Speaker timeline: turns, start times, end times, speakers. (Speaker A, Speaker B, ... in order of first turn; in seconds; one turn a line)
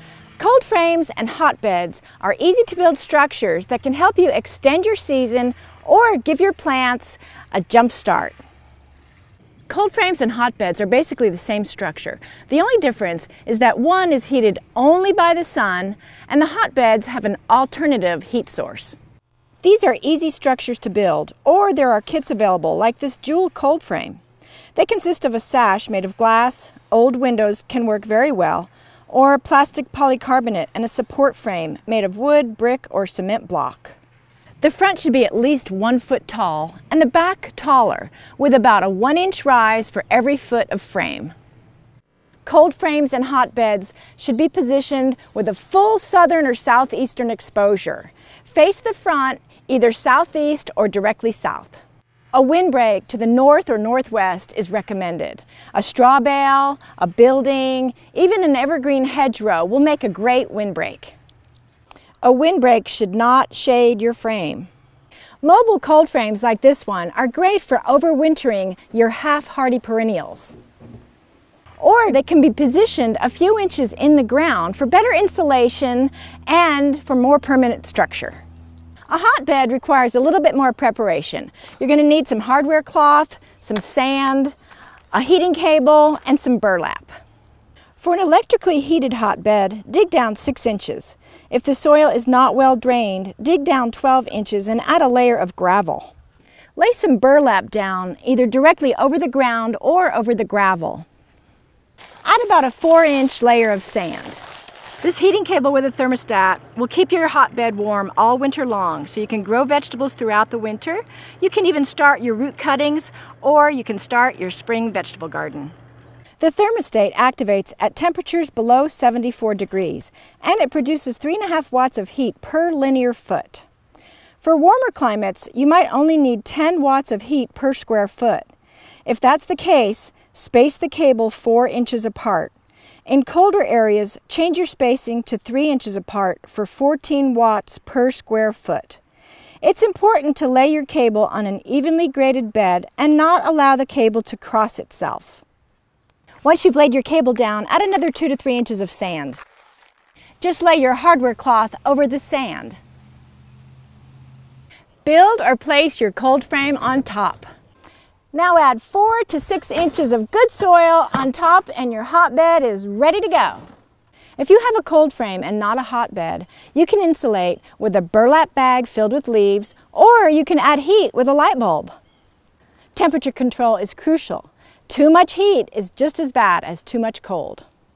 Speaker A: 0.4-8.4
Speaker A: 9.7-19.0
Speaker A: 19.6-24.2
Speaker A: 24.7-34.0
Speaker A: 34.6-41.3
Speaker A: 42.4-51.8
Speaker A: 52.3-61.1
Speaker A: 62.2-64.7
Speaker A: 65.4-70.5
Speaker A: 71.8-78.4
Speaker A: 79.1-84.5
Speaker A: 85.1-87.2
Speaker A: 88.0-96.1
Speaker A: 96.8-101.0
Speaker A: 102.2-104.4
Speaker A: 105.0-115.7
Speaker A: 116.4-123.7
Speaker A: 124.4-128.5
Speaker A: 129.0-132.5
Speaker A: 133.1-139.0
Speaker A: 139.6-145.4
Speaker A: 146.4-149.4
Speaker A: 150.4-152.8
Speaker A: 155.0-157.4
Speaker A: 158.3-163.6
Speaker A: 164.4-171.9
Speaker A: 172.9-177.7